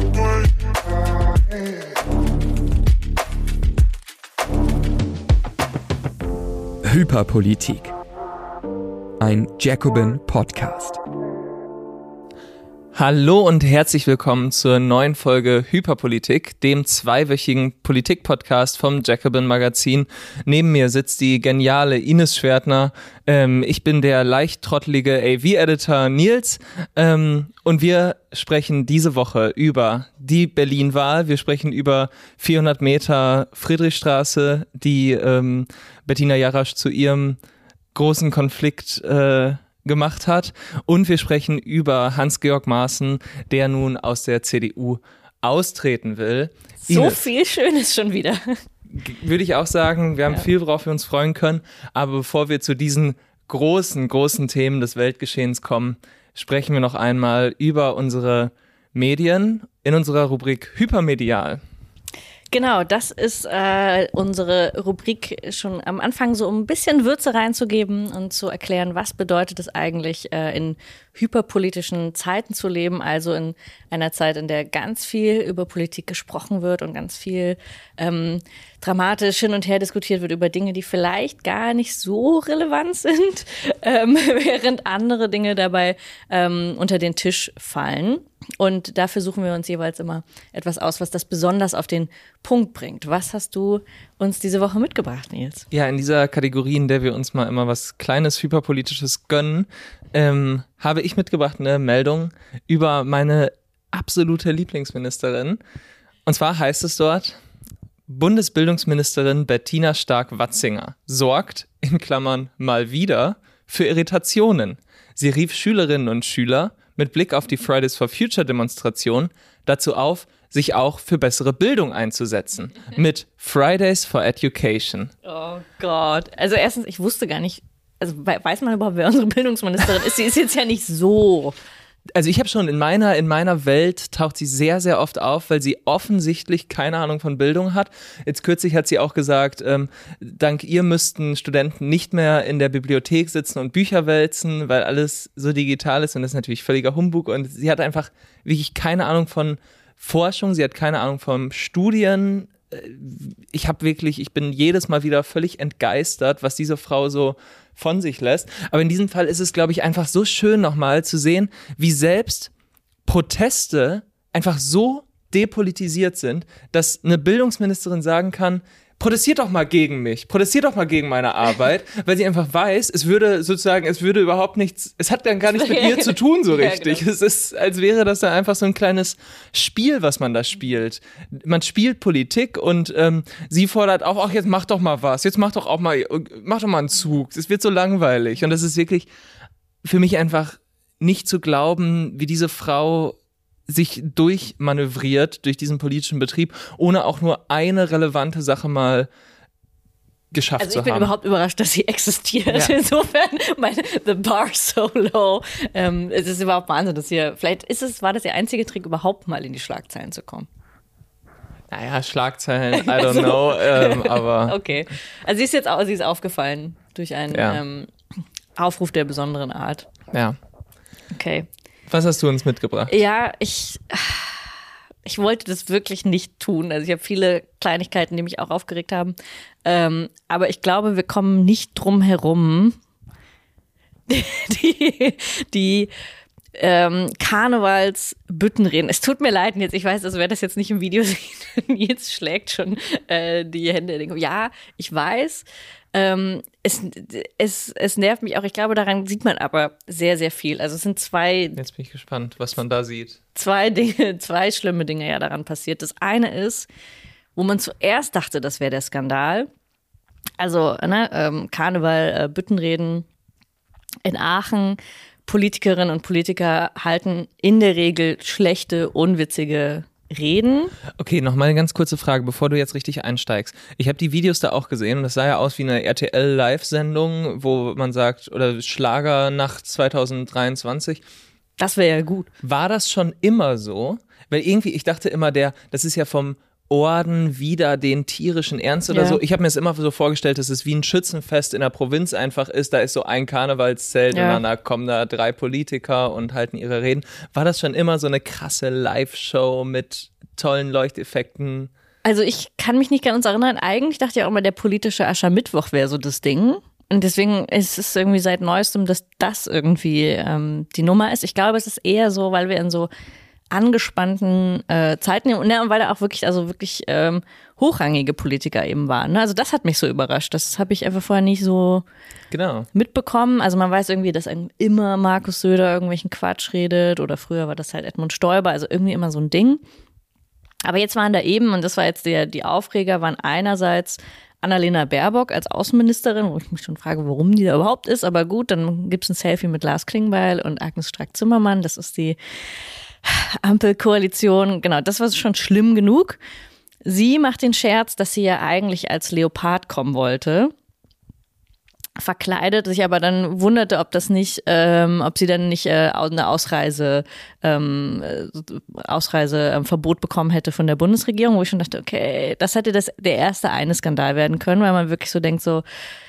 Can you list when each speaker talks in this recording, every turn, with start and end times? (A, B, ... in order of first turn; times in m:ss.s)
0:06.8-0:07.9 A
0:09.2-0:11.0 A
0:12.9-0:37.4 B
0:37.9-0:47.2 B
0:46.8-0:48.6 C
0:48.9-1:01.6 B
1:02.5-1:35.7 C
1:35.7-1:45.6 B
1:46.2-1:47.4 B
1:48.1-2:05.1 B
2:05.2-2:11.6 C
2:12.1-2:42.5 B
2:43.0-3:09.1 B
2:55.4-2:57.0 C
3:09.8-3:19.1 B
3:20.3-3:21.1 B
3:20.6-3:30.5 C
3:31.7-3:34.6 B
3:32.7-3:37.9 C
3:37.3-3:37.6 B
3:38.6-3:39.9 C
3:40.1-3:40.4 B
3:41.1-3:41.5 C
3:41.9-3:43.0 B
3:42.9-3:44.5 C
3:45.0-3:52.8 C
3:54.1-3:55.9 C
3:56.6-4:11.6 C
4:11.6-4:13.2 B
4:13.3-4:16.7 C
4:17.4-4:19.5 C
4:20.4-4:23.0 C
4:24.0-4:30.7 C
4:31.0-4:41.0 B
4:41.6-4:42.3 C
4:42.4-5:01.7 B
4:48.9-4:49.2 C
4:54.1-4:54.4 C
5:02.0-5:12.9 C
5:13.5-5:21.8 C
5:22.3-5:22.7 B
5:22.7-5:29.6 C
5:30.6-5:42.2 C
5:43.0-5:46.2 C
5:46.8-5:50.5 C
5:52.0-6:05.6 C